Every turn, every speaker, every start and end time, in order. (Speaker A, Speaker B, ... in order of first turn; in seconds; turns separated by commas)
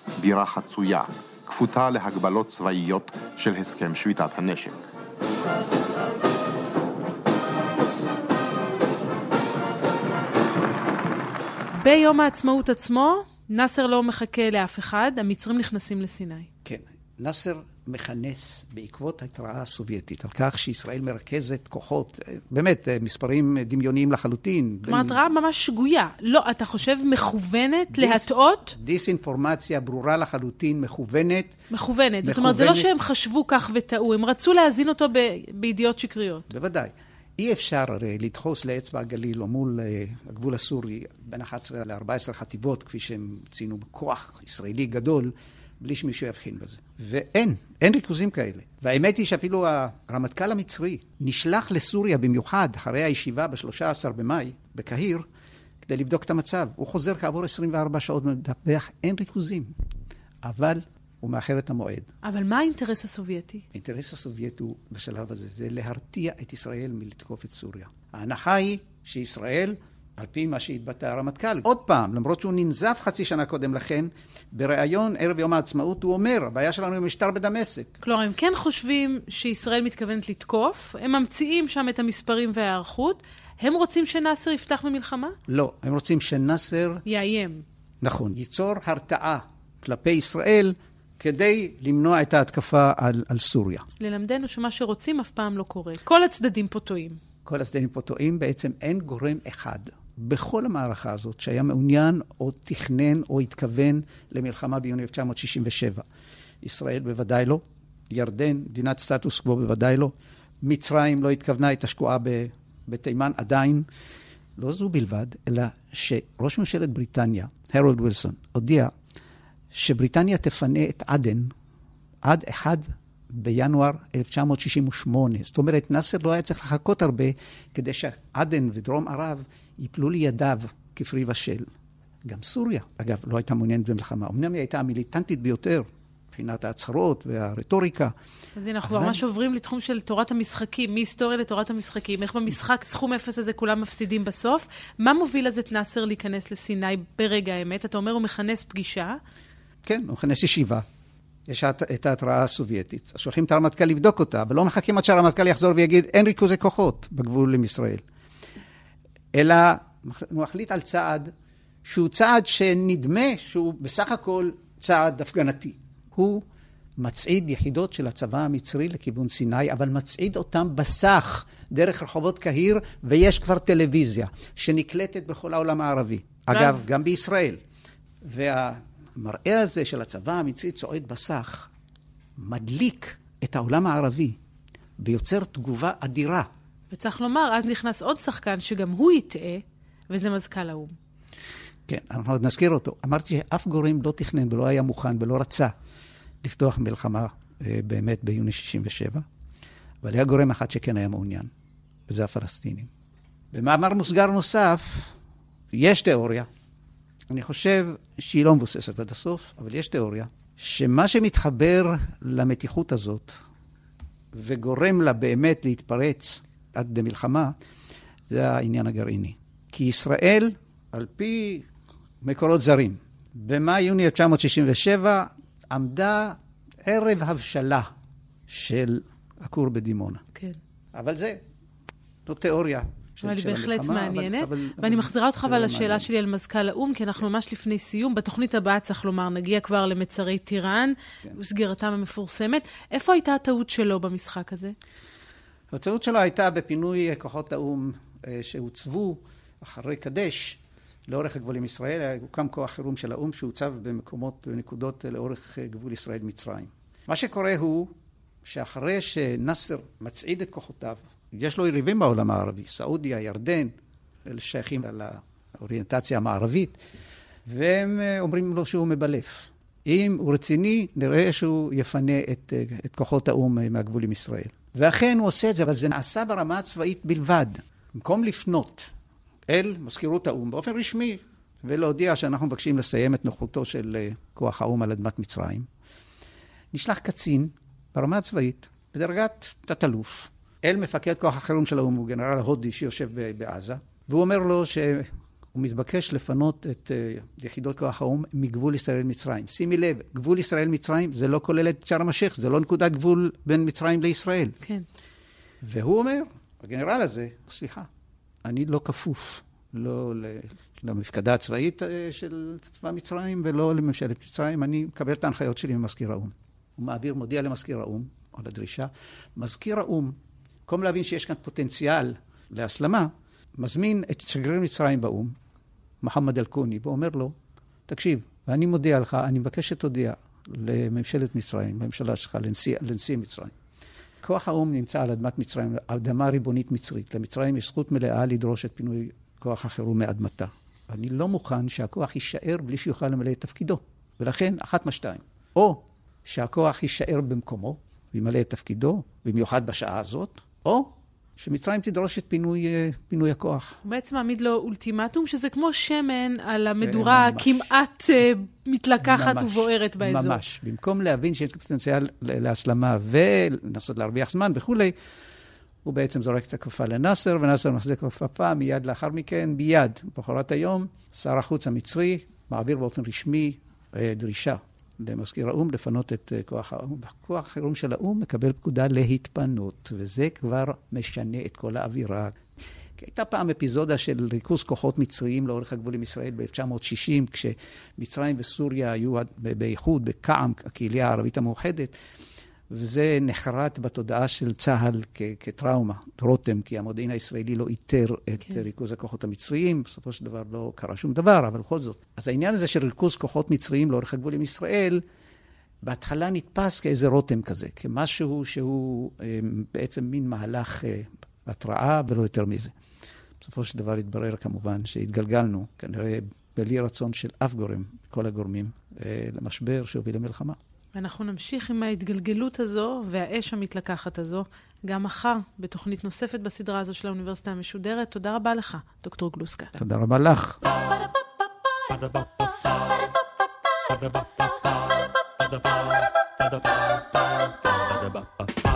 Speaker A: 0.2-4.8, Speaker B: 11.8-16.5, Speaker C: 16.6-25.2, Speaker B: 24.9-28.8, Speaker C: 27.9-31.6, Speaker B: 31.7-36.5, Speaker C: 32.2-32.9, Speaker C: 36.5-55.2, Speaker C: 55.8-59.7, Speaker C: 60.4-62.1, Speaker B: 62.2-63.6, Speaker C: 63.7-77.9, Speaker B: 78.0-85.3, Speaker C: 85.5-87.0, Speaker B: 87.0-87.6, Speaker C: 88.0-93.9, Speaker B: 94.0-97.2, Speaker C: 97.4-106.0, Speaker C: 106.6-113.9, Speaker C: 114.6-118.9, Speaker C: 119.7-121.5, Speaker C: 122.2-131.7, Speaker C: 132.2-138.1, Speaker B: 138.6-149.2, Speaker C: 138.8-139.2, Speaker C: 149.8-150.8, Speaker C: 151.5-158.0, Speaker C: 159.3-161.3, Speaker C: 161.8-166.4, Speaker C: 167.0-177.6, Speaker B: 176.5-176.8, Speaker C: 178.2-181.7, Speaker C: 182.4-184.4, Speaker C: 185.0-186.5, Speaker B: 186.9-190.9, Speaker C: 191.9-195.7, Speaker C: 196.4-199.2, Speaker C: 200.0-201.5, Speaker C: 202.1-202.9, Speaker C: 203.5-205.1, Speaker C: 205.7-206.5, Speaker C: 207.3-213.4, Speaker C: 214.3-217.5, Speaker C: 218.3-221.7, Speaker C: 222.2-227.9, Speaker C: 228.5-230.2, Speaker C: 230.9-231.4, Speaker C: 232.2-236.1, Speaker B: 233.2-244.7, Speaker C: 245.7-257.9, Speaker C: 258.4-263.7, Speaker C: 264.2-266.8, Speaker C: 267.4-278.9, Speaker C: 279.5-285.7, Speaker C: 286.7-304.6, Speaker C: 305.6-307.9, Speaker C: 308.4-320.1, Speaker C: 320.7-325.3, Speaker C: 326.0-327.3, Speaker C: 327.9-333.5, Speaker C: 334.2-353.8, Speaker B: 353.8-360.4, Speaker C: 356.8-357.7, Speaker C: 359.0-364.9, Speaker C: 365.8-382.4, Speaker C: 383.0-391.9, Speaker C: 392.7-405.0, Speaker C: 405.8-412.7, Speaker C: 413.4-420.6, Speaker B: 420.9-429.8, Speaker C: 429.8-430.6